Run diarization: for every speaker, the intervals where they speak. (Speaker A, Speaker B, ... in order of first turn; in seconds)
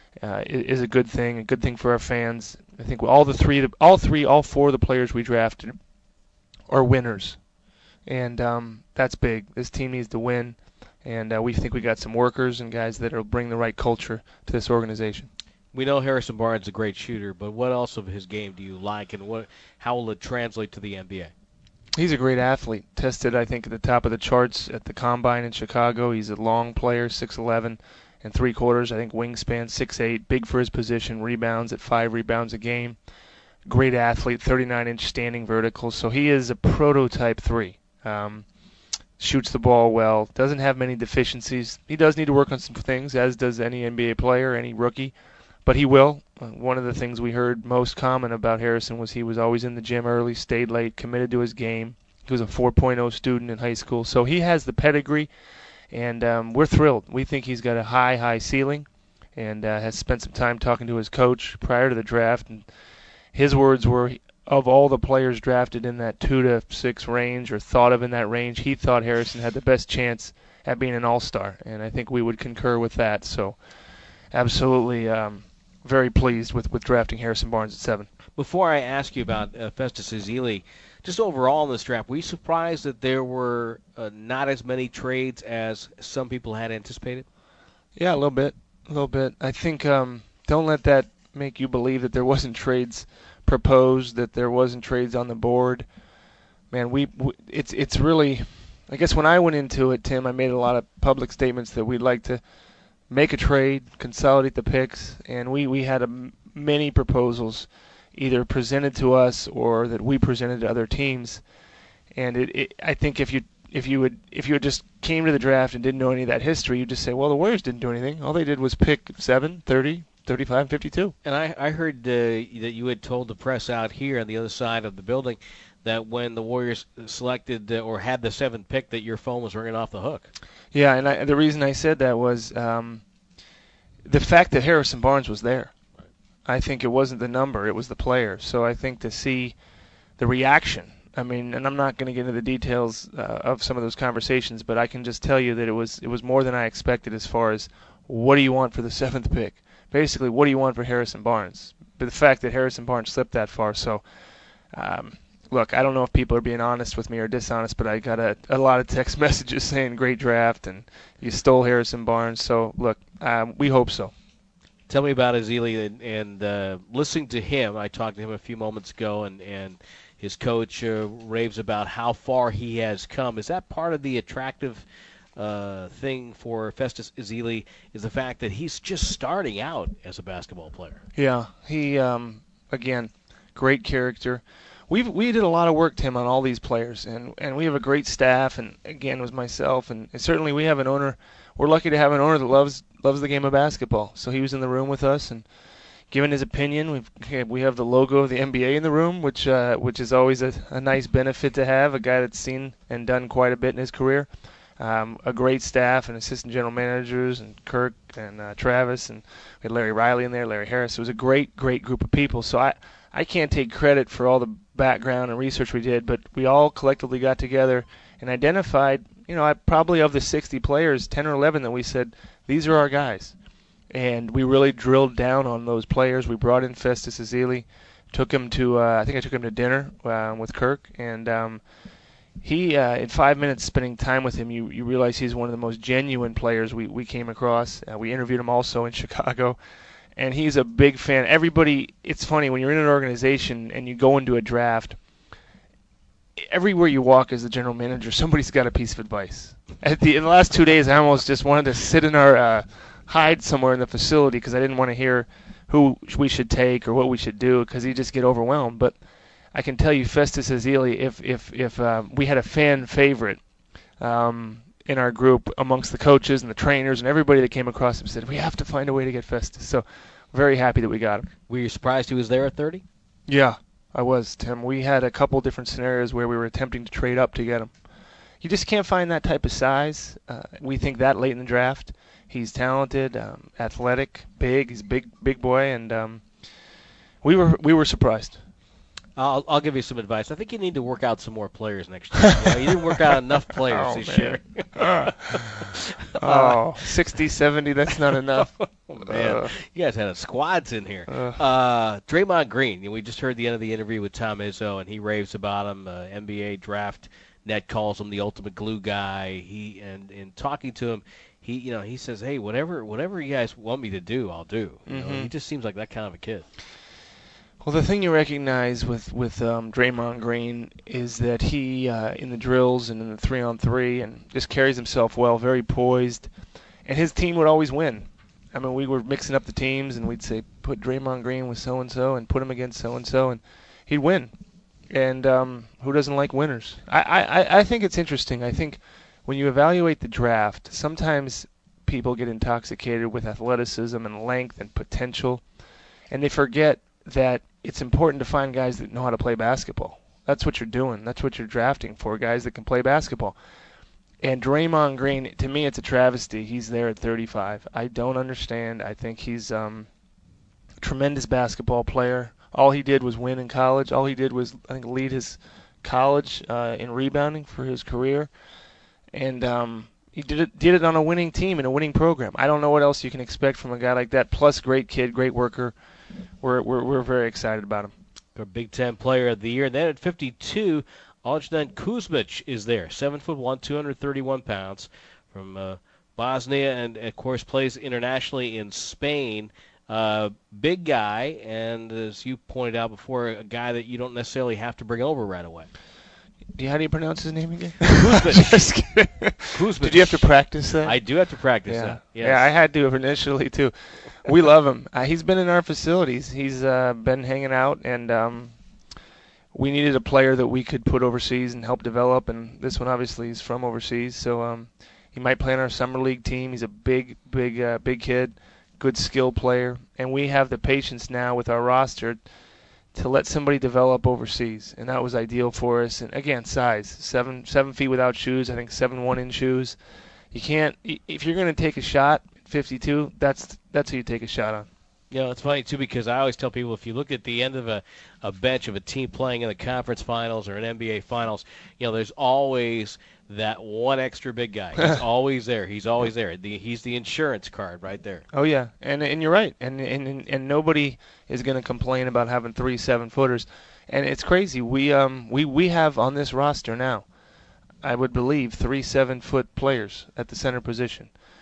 Speaker A: 0.2-5.8, 6.7-7.4, 8.1-15.3, 21.9-33.0, 33.6-38.5, 39.2-55.3, 55.9-62.7, 63.3-73.6, 74.3-78.1, 88.0-95.9, 96.7-102.4, 103.1-111.4, 112.1-121.1, 130.7-133.0, 134.0-135.7, 136.4-139.6, 140.2-154.1, 154.7-164.1, 181.1-195.5, 196.1-223.3, 223.9-231.6, 232.4-239.6, 240.1-245.0, 246.4-259.0, 259.5-263.4, 264.0-271.3, 273.3-277.8, 278.4-286.5, 287.2-288.4, 293.6-295.6, 296.2-299.5, 301.1-301.4, 314.8-315.3, 317.6-326.3, 326.8-334.4, 334.9-345.4, 346.1-353.4, 354.2-359.9, 360.8-368.3, 369.1-375.7, 376.4-377.9, 396.6-401.0, 401.6-408.6, 409.5-422.2, 422.9-429.8, 430.3-434.7, 448.3-457.1, 457.8-461.1
Speaker B: 15.7-21.3, 78.3-87.2, 121.2-130.3, 164.9-174.8, 175.3-181.0, 271.5-272.8, 289.1-296.7, 298.1-316.5, 378.3-395.7, 397.9-398.6, 399.5-402.4, 435.1-448.2